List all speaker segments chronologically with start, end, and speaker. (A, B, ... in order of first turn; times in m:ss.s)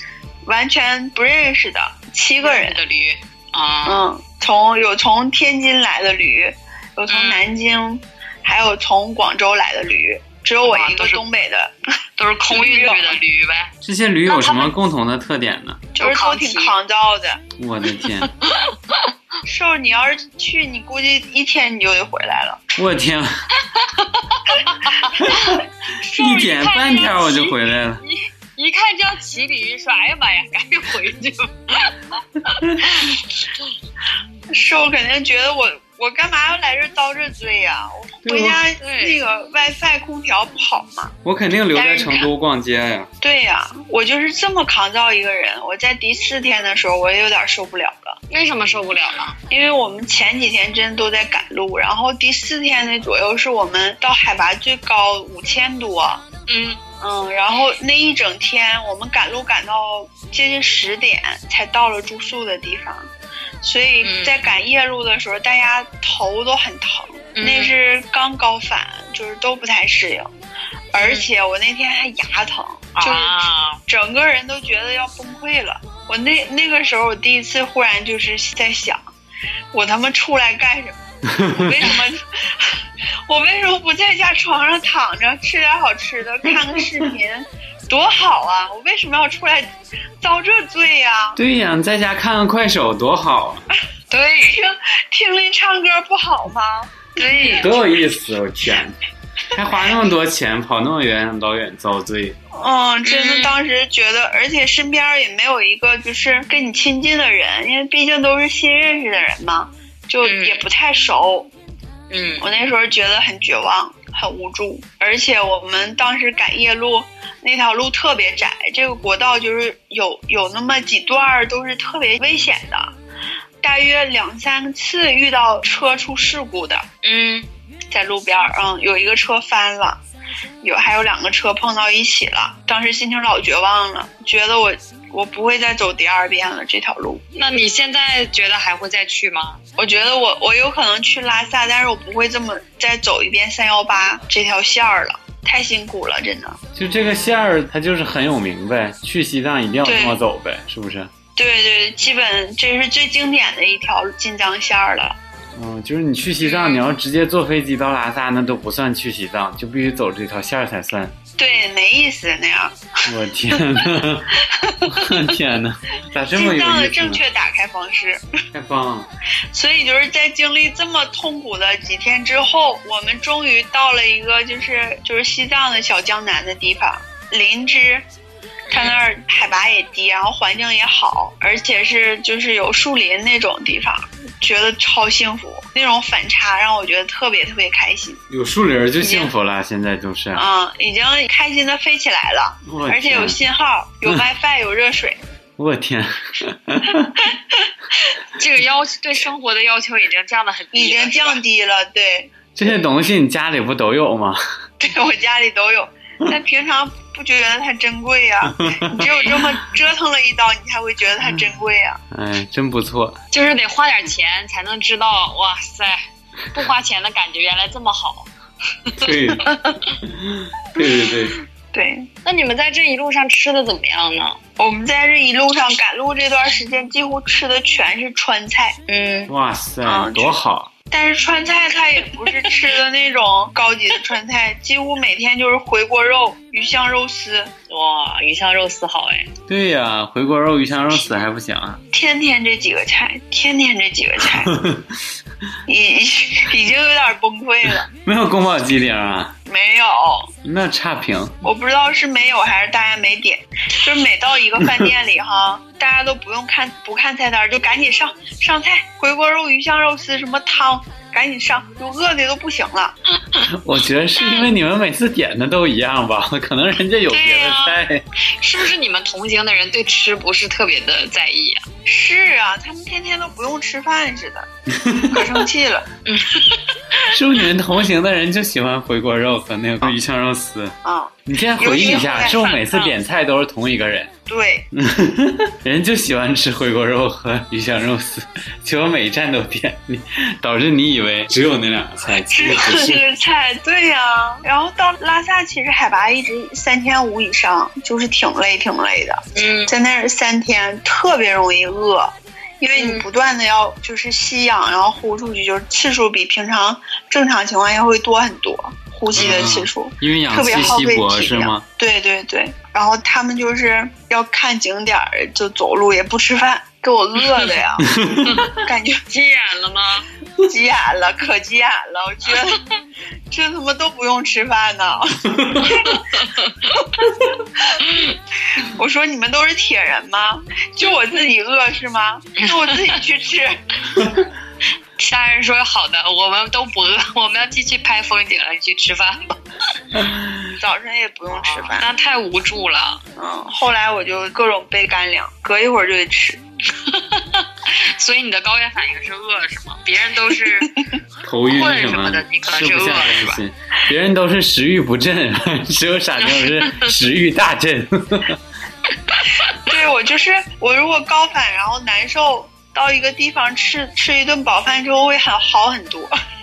0:00.4-0:02.8 A
0:02.4-0:04.1 B
0:03.8-0:11.7 A
0:07.1-0:07.4 B
0:10.6-0:11.2 B
0:12.2-0:13.7 B
0:12.5-0:13.2 A
0:13.8-0:15.8 C
0:14.3-0:14.7 B
0:15.9-0:17.4 A
0:16.0-0:16.7 B
0:17.6-0:18.3 C
0:18.0-0:19.0 B
0:19.4-0:22.6 A
0:22.8-0:23.4 C
0:23.6-0:25.4 B
0:25.2-0:28.0 C
0:26.0-0:31.9 B
0:32.6-0:32.9 C
0:32.8-0:33.3 B
0:34.5-0:41.1 A
0:38.2-0:38.6 C
0:38.8-0:39.2 B
0:41.2-0:43.1 C
0:41.7-0:42.3 A
0:43.2-0:48.2 A
0:48.3-0:49.4 B
0:49.5-0:56.2 A
0:56.5-0:56.8 B
0:57.0-1:03.1 A
1:03.6-1:10.3 A
1:04.0-1:04.4 B
1:07.4-1:07.7 B
1:10.9-1:19.0 A
1:11.0-1:11.3 B
1:13.0-1:13.8 B
1:19.7-1:29.7 A
1:21.3-1:21.8 C
1:30.2-1:31.4 A
1:31.4-1:33.6 C
1:34.1-1:34.6 B
1:34.4-1:37.8 A
1:37.2-1:37.7 B
1:37.5-1:39.0 C
1:39.5-1:42.4 C
1:42.5-1:51.5 A
1:43.0-1:43.5 B
1:50.2-1:50.6 B
1:52.1-1:52.5 B
1:52.4-2:02.9 A
2:03.6-2:06.9 A
2:07.0-2:07.5 B
2:07.9-2:10.0 A
2:10.6-2:17.2 A
2:17.3-2:19.6 B
2:19.8-2:26.6 A
2:26.7-2:31.1 C
2:29.8-2:30.2 A
2:31.4-2:35.2 A
2:35.5-2:41.1 C
2:36.4-2:36.8 B
2:41.4-2:42.8 A
2:43.0-2:47.2 C
2:44.4-2:45.2 A
2:46.3-2:48.2 A
2:48.5-2:49.1 C
2:49.5-2:58.0 A
2:58.7-2:59.0 B
2:58.7-3:08.2 A
3:08.3-3:10.5 C
3:10.3-3:15.2 A
3:12.6-3:13.4 C
3:15.6-3:17.2 C
3:17.2-3:17.7 A
3:18.3-3:21.4 B
3:20.7-3:22.3 A
3:22.5-3:24.4 C
3:24.8-3:32.0 A
3:28.5-3:29.2 C
3:32.1-3:33.2 C
3:33.3-3:38.3 B
3:38.8-3:39.1 B
3:39.0-3:41.4 C
3:41.7-3:42.1 A
3:42.2-3:44.4 B
3:44.6-3:48.8 A
3:48.9-3:49.3 B
3:49.3-3:50.7 C
3:49.8-3:50.4 A
3:50.9-3:57.5 A
3:52.1-3:52.5 B
3:57.7-3:59.3 B
3:59.5-4:01.8 C
4:01.9-4:04.5 A
4:04.5-4:04.8 C
4:05.7-4:07.9 A
4:07.9-4:09.4 C
4:09.4-4:10.3 A
4:10.4-4:11.4 C
4:11.4-4:23.0 A
4:23.4-4:28.0 C
4:24.2-4:24.5 B
4:27.1-4:31.6 B
4:31.8-4:34.5 A
4:34.7-4:35.2 C
4:35.1-4:35.9 A
4:36.0-4:37.1 B
4:37.1-4:40.8 C
4:40.8-4:42.4 A
4:41.3-4:44.1 C
4:41.6-4:43.0 B
4:44.3-4:44.7 A
4:44.7-4:53.0 C
4:52.2-5:17.9 A
4:59.3-4:59.7 B
5:02.7-5:03.0 B
5:09.1-5:11.6 C
5:09.2-5:09.5 B
5:17.8-5:18.5 C
5:18.2-5:20.1 B
5:18.6-5:19.0 A
5:20.4-5:22.6 A
5:23.3-5:26.0 A
5:25.3-5:25.7 C
5:25.7-5:26.8 B
5:27.8-5:28.2 B
5:28.5-5:33.6 A
5:32.4-5:33.0 B
5:35.0-5:39.3 B
5:39.9-5:40.6 C
5:40.6-5:41.9 A
5:41.3-5:43.0 B
5:43.2-5:46.4 A
5:46.7-5:50.7 B
5:51.2-5:58.4 C
5:51.5-5:53.4 B
5:56.2-5:56.9 B
5:59.1-5:59.7 B
5:59.6-6:06.1 A